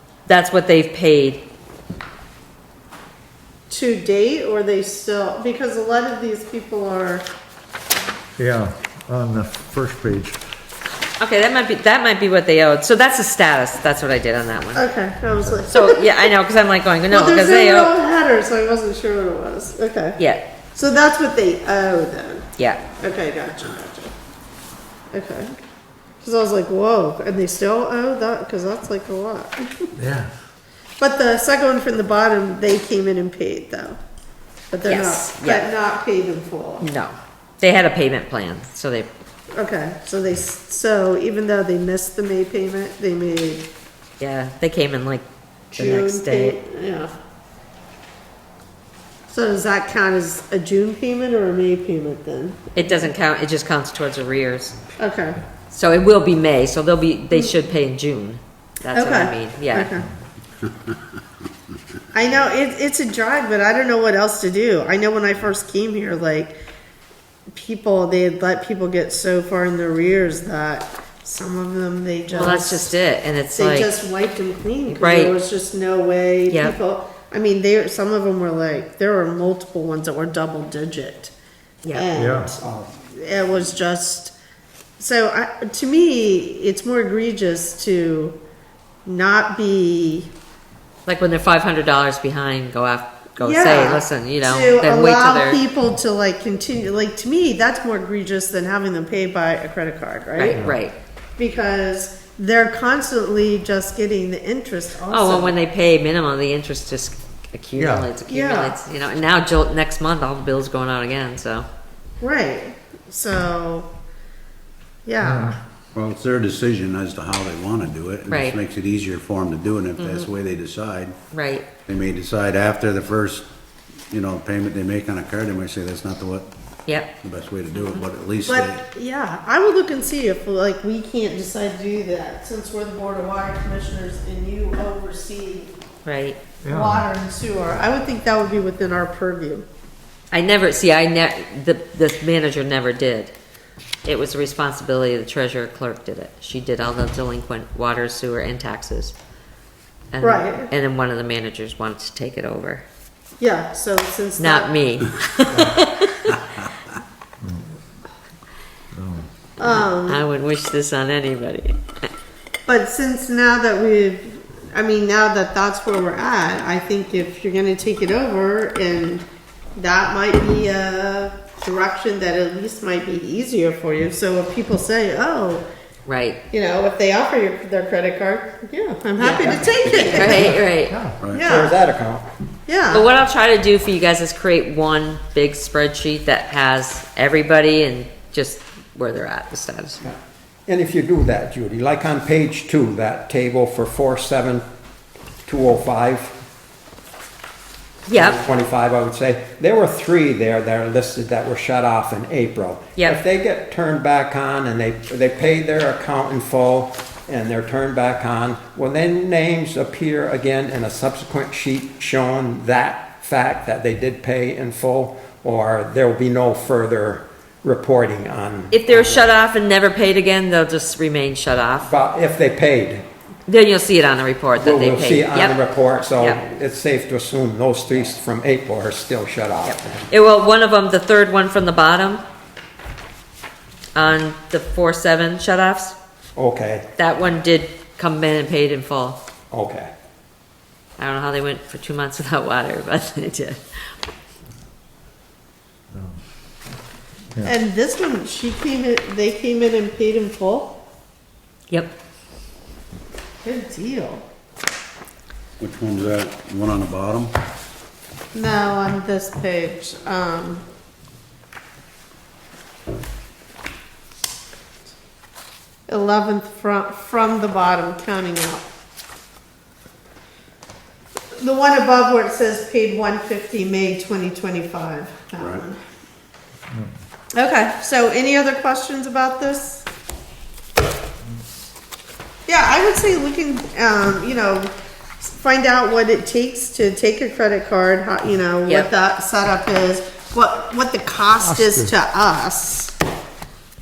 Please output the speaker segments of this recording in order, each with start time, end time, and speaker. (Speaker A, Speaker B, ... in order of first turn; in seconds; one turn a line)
Speaker A: 0.3-1.4
Speaker B: 3.7-7.3
Speaker C: 8.4-10.4
Speaker A: 11.2-14.8
Speaker B: 14.8-16.3
Speaker A: 15.7-17.9
Speaker B: 17.1-20.2
Speaker B: 20.7-22.5
Speaker A: 22.6-22.8
Speaker B: 23.0-24.1
Speaker B: 25.1-25.6
Speaker B: 26.2-29.9
Speaker C: 30.0-30.3
Speaker B: 31.0-34.0
Speaker B: 34.7-36.9
Speaker A: 34.9-35.7
Speaker A: 36.8-39.1
Speaker B: 39.5-43.7
Speaker A: 44.2-46.6
Speaker B: 45.7-47.1
Speaker B: 49.3-53.1
Speaker A: 52.8-54.8
Speaker B: 55.0-55.4
Speaker A: 55.7-59.9
Speaker B: 58.9-60.1
Speaker B: 62.1-66.6
Speaker B: 67.5-73.0
Speaker A: 72.3-73.9
Speaker B: 73.5-81.3
Speaker A: 74.9-75.3
Speaker A: 76.5-76.8
Speaker B: 81.9-84.4
Speaker C: 82.2-82.5
Speaker D: 82.6-82.9
Speaker B: 85.0-88.4
Speaker B: 89.0-90.3
Speaker A: 91.1-95.6
Speaker B: 93.4-100.6
Speaker A: 100.4-100.9
Speaker B: 101.4-105.6
Speaker A: 105.1-111.7
Speaker C: 107.8-108.1
Speaker B: 108.3-108.8
Speaker B: 112.2-113.9
Speaker B: 115.0-115.5
Speaker C: 115.2-115.6
Speaker E: 116.0-121.2
Speaker A: 118.3-118.6
Speaker A: 120.0-120.3
Speaker A: 121.3-121.7
Speaker E: 121.9-123.5
Speaker E: 124.1-126.5
Speaker E: 127.2-128.8
Speaker A: 127.8-128.0
Speaker B: 128.5-135.8
Speaker A: 136.1-136.4
Speaker C: 136.6-137.1
Speaker B: 136.7-139.7
Speaker A: 140.3-143.3
Speaker A: 144.1-149.2
Speaker A: 150.1-152.8
Speaker B: 150.2-150.7
Speaker B: 153.4-154.7
Speaker A: 154.4-156.4
Speaker C: 158.9-159.3
Speaker B: 159.6-160.2
Speaker A: 159.6-161.8
Speaker B: 162.7-175.7
Speaker A: 176.1-176.4
Speaker B: 176.5-180.5
Speaker A: 179.2-181.0
Speaker C: 180.9-181.2
Speaker E: 181.2-181.5
Speaker B: 181.3-181.8
Speaker D: 181.5-182.3
Speaker B: 182.7-183.1
Speaker A: 182.9-190.0
Speaker D: 190.0-194.7
Speaker D: 195.5-196.3
Speaker A: 198.1-198.4
Speaker D: 198.1-219.3
Speaker A: 218.7-221.9
Speaker D: 221.9-223.1
Speaker A: 223.5-225.6
Speaker D: 224.6-230.1
Speaker A: 226.2-226.4
Speaker A: 229.7-232.2
Speaker A: 233.9-236.0
Speaker D: 236.4-236.9
Speaker A: 237.0-239.2
Speaker D: 239.5-239.9
Speaker A: 241.0-243.9
Speaker B: 247.4-250.8
Speaker A: 251.7-251.9
Speaker B: 253.4-254.2
Speaker E: 255.6-257.3
Speaker B: 258.3-260.6
Speaker B: 265.9-268.7
Speaker B: 271.4-275.8
Speaker E: 275.4-275.6
Speaker B: 277.4-279.9
Speaker B: 282.5-292.9
Speaker C: 291.5-291.9